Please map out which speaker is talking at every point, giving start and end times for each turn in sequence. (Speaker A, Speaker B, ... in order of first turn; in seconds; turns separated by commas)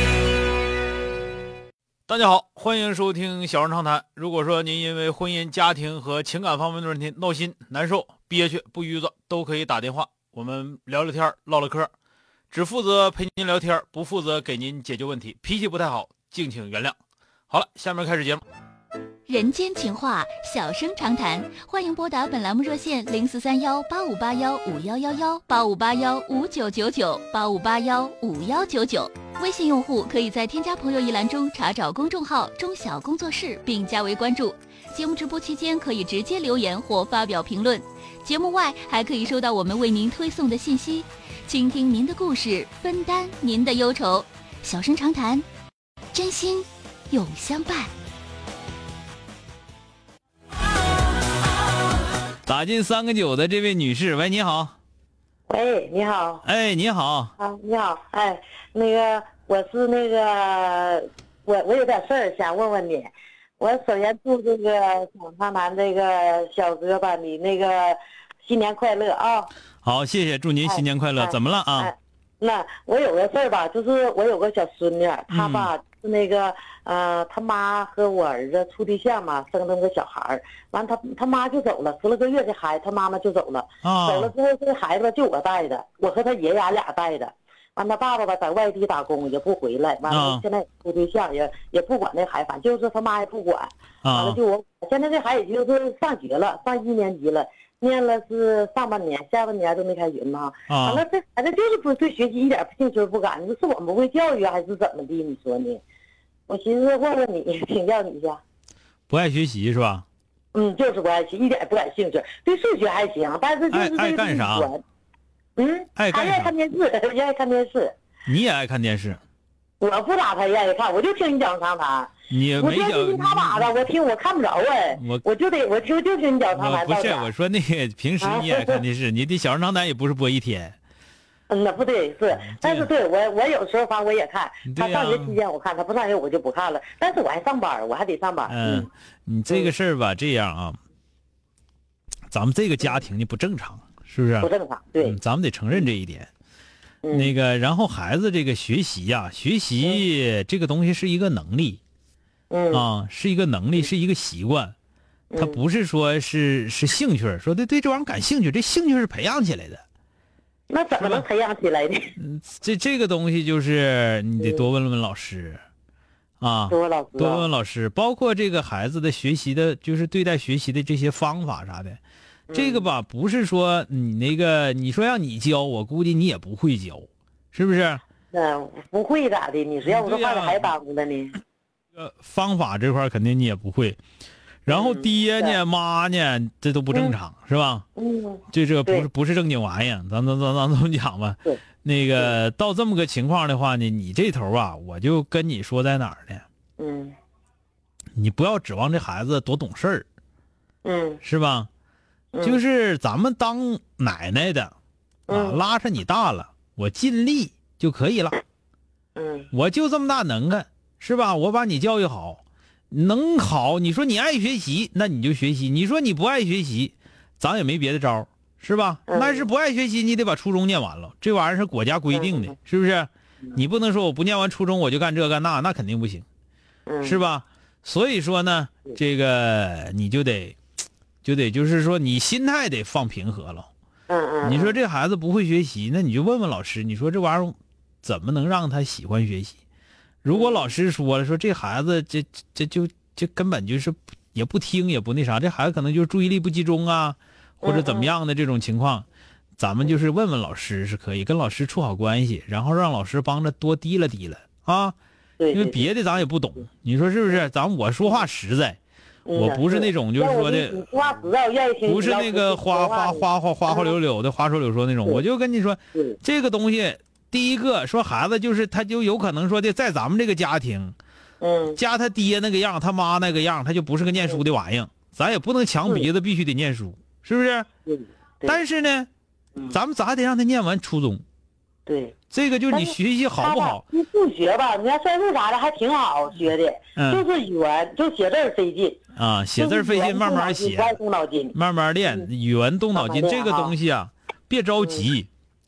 Speaker A: 2.1-11.9, Speaker A: 12.5-17.0, Speaker A: 17.5-18.4, Speaker B: 19.3-45.5, Speaker B: 46.1-47.9, Speaker A: 52.5-54.7, Speaker C: 55.5-56.4, Speaker A: 56.4-57.3, Speaker C: 57.4-69.5, Speaker A: 69.8-71.9, Speaker C: 70.6-105.8, Speaker A: 75.3-75.7, Speaker A: 83.8-84.3, Speaker A: 90.1-90.4, Speaker A: 94.0-94.4, Speaker A: 100.7-101.0, Speaker C: 106.5-108.4, Speaker A: 109.1-110.0, Speaker C: 110.5-114.8, Speaker A: 113.7-114.7, Speaker C: 115.6-117.9, Speaker A: 116.0-116.5, Speaker A: 118.3-119.2, Speaker C: 119.8-127.3, Speaker A: 122.3-123.7, Speaker A: 124.9-125.2, Speaker A: 126.5-130.8, Speaker C: 128.2-128.8, Speaker C: 131.5-138.9, Speaker A: 132.3-132.9, Speaker A: 134.7-135.4, Speaker A: 138.5-140.8, Speaker A: 142.3-144.5, Speaker C: 144.4-145.2, Speaker A: 145.0-146.3, Speaker C: 147.0-147.3, Speaker A: 147.1-151.8, Speaker C: 152.5-152.8, Speaker A: 152.7-154.7, Speaker C: 155.3-155.6, Speaker A: 155.3-159.8, Speaker C: 160.7-162.2, Speaker A: 161.0-161.3, Speaker A: 162.2-165.6, Speaker C: 164.4-164.7, Speaker A: 166.4-172.0, Speaker C: 166.7-167.5, Speaker C: 172.5-172.9, Speaker A: 172.5-178.0, Speaker C: 178.3-181.4, Speaker A: 179.8-180.7, Speaker A: 181.9-184.0, Speaker A: 184.7-187.8, Speaker C: 184.7-185.6, Speaker C: 187.9-189.1, Speaker A: 188.5-196.4, Speaker C: 196.8-197.2, Speaker A: 198.2-200.1, Speaker C: 200.8-201.2, Speaker A: 201.2-201.7, Speaker C: 202.3-202.6, Speaker A: 202.4-204.7, Speaker C: 205.3-205.6, Speaker A: 205.3-208.4, Speaker C: 209.2-209.5, Speaker A: 209.5-226.2, Speaker C: 219.1-219.5, Speaker C: 222.1-222.5, Speaker C: 226.8-227.2, Speaker A: 227.0-230.6, Speaker A: 231.2-233.7, Speaker C: 234.1-234.8, Speaker A: 234.4-239.6, Speaker A: 240.2-249.1, Speaker C: 240.3-240.7, Speaker C: 247.6-248.1, Speaker A: 249.6-254.9, Speaker C: 255.4-255.9, Speaker A: 255.5-258.8, Speaker C: 259.2-263.9, Speaker A: 259.3-260.9, Speaker A: 261.8-270.9, Speaker C: 271.4-271.8, Speaker A: 271.7-277.7, Speaker C: 277.9-278.6, Speaker A: 278.4-279.1, Speaker A: 279.7-281.2, Speaker C: 281.9-282.1, Speaker A: 282.3-283.8, Speaker C: 282.7-289.0, Speaker A: 287.0-287.2, Speaker A: 289.1-291.0, Speaker C: 289.6-291.6, Speaker A: 291.5-295.3, Speaker C: 292.9-293.7, Speaker C: 294.8-295.0